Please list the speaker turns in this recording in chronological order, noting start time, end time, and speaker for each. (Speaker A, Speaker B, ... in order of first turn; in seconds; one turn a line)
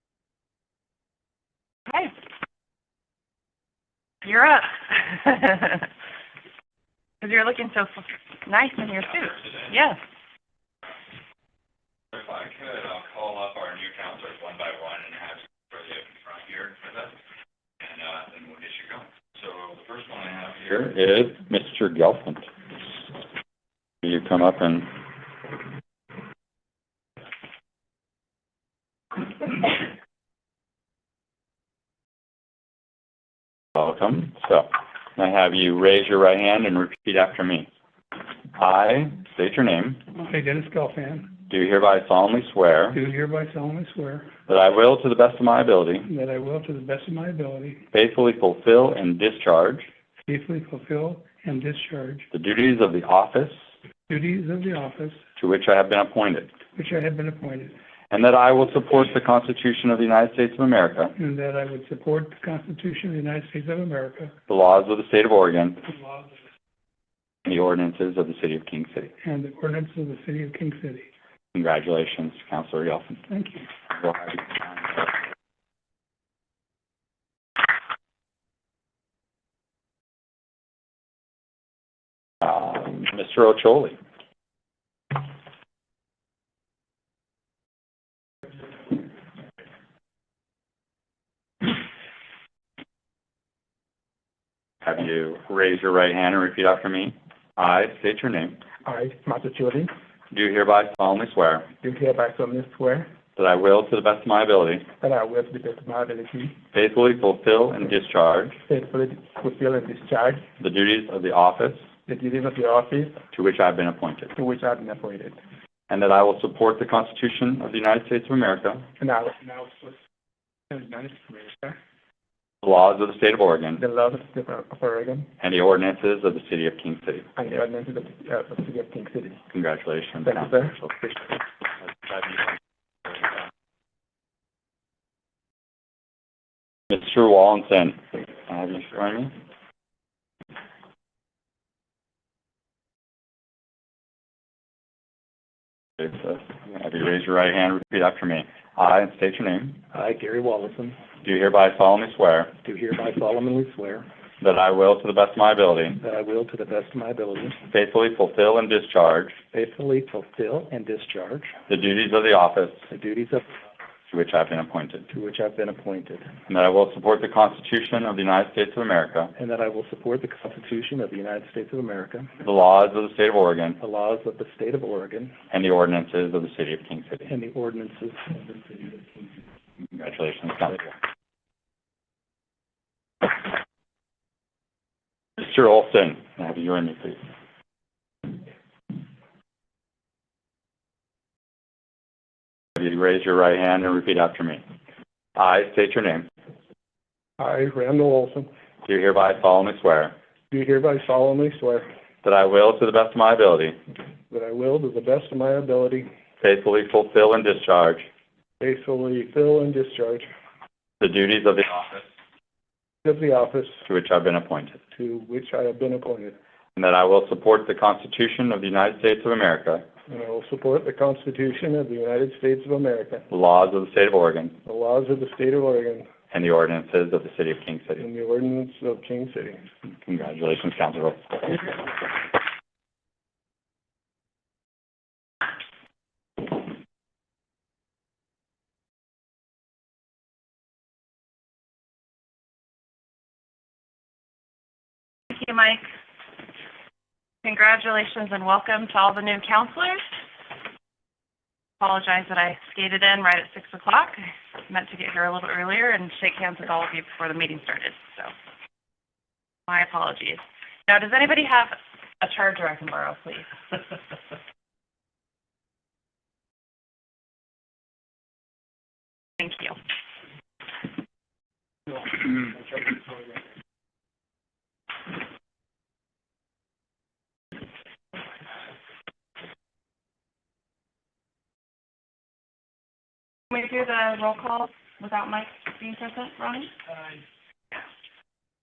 Speaker A: 4.2-5.9
Speaker A: 7.2-10.0
Speaker B: 9.3-9.7
Speaker B: 12.1-17.1
Speaker B: 17.8-22.5
Speaker B: 24.0-25.0
Speaker B: 33.8-37.7
Speaker B: 38.5-40.0
Speaker C: 40.1-41.3
Speaker B: 41.5-43.0
Speaker C: 42.9-44.3
Speaker B: 44.5-46.1
Speaker C: 46.0-47.8
Speaker B: 47.9-49.9
Speaker C: 50.3-52.2
Speaker B: 52.3-53.6
Speaker C: 54.1-55.2
Speaker B: 55.4-56.5
Speaker C: 56.7-57.7
Speaker B: 58.1-61.1
Speaker C: 61.2-64.3
Speaker B: 64.5-65.8
Speaker C: 65.9-66.3
Speaker B: 67.4-69.1
Speaker C: 69.2-71.1
Speaker B: 71.5-73.2
Speaker C: 73.3-73.6
Speaker B: 73.9-75.2
Speaker B: 82.4-84.0
Speaker B: 94.8-98.6
Speaker D: 98.8-99.9
Speaker B: 100.3-101.7
Speaker D: 101.8-103.1
Speaker B: 103.3-104.9
Speaker D: 105.0-106.6
Speaker B: 106.7-108.6
Speaker D: 108.7-110.4
Speaker B: 110.6-111.9
Speaker D: 112.1-113.2
Speaker B: 113.3-114.3
Speaker D: 114.3-115.4
Speaker B: 115.9-118.9
Speaker D: 119.0-120.0
Speaker D: 120.7-121.8
Speaker B: 122.6-123.8
Speaker D: 123.8-125.3
Speaker B: 125.4-127.3
Speaker D: 127.3-129.4
Speaker B: 129.5-130.6
Speaker D: 130.2-131.3
Speaker B: 131.9-132.5
Speaker B: 136.9-139.3
Speaker B: 146.0-149.8
Speaker E: 149.9-151.0
Speaker B: 151.2-152.5
Speaker E: 152.6-154.1
Speaker B: 154.4-156.0
Speaker E: 156.0-157.6
Speaker B: 157.7-159.4
Speaker E: 159.5-161.5
Speaker B: 161.7-162.9
Speaker E: 162.9-163.5
Speaker B: 164.1-165.0
Speaker E: 165.1-166.3
Speaker B: 166.5-169.3
Speaker E: 169.3-172.3
Speaker B: 172.4-173.8
Speaker E: 173.8-175.3
Speaker B: 175.5-177.3
Speaker E: 177.3-179.0
Speaker B: 179.9-180.9
Speaker B: 185.4-187.2
Speaker B: 192.8-194.6
Speaker B: 195.3-196.2
Speaker D: 197.4-198.5
Speaker B: 198.8-200.1
Speaker D: 200.5-201.8
Speaker B: 202.2-203.8
Speaker D: 204.3-206.1
Speaker B: 206.4-208.1
Speaker D: 208.6-210.3
Speaker B: 211.0-212.1
Speaker D: 213.0-213.8
Speaker B: 213.9-214.8
Speaker D: 214.9-216.4
Speaker B: 216.7-219.8
Speaker D: 220.1-223.2
Speaker B: 223.3-224.6
Speaker D: 224.6-226.1
Speaker B: 226.3-228.0
Speaker D: 228.0-229.7
Speaker B: 229.8-231.9
Speaker A: 245.3-245.8
Speaker A: 247.4-250.1
Speaker A: 251.8-258.3
Speaker A: 259.7-263.5
Speaker A: 269.4-269.7
Speaker A: 283.5-286.7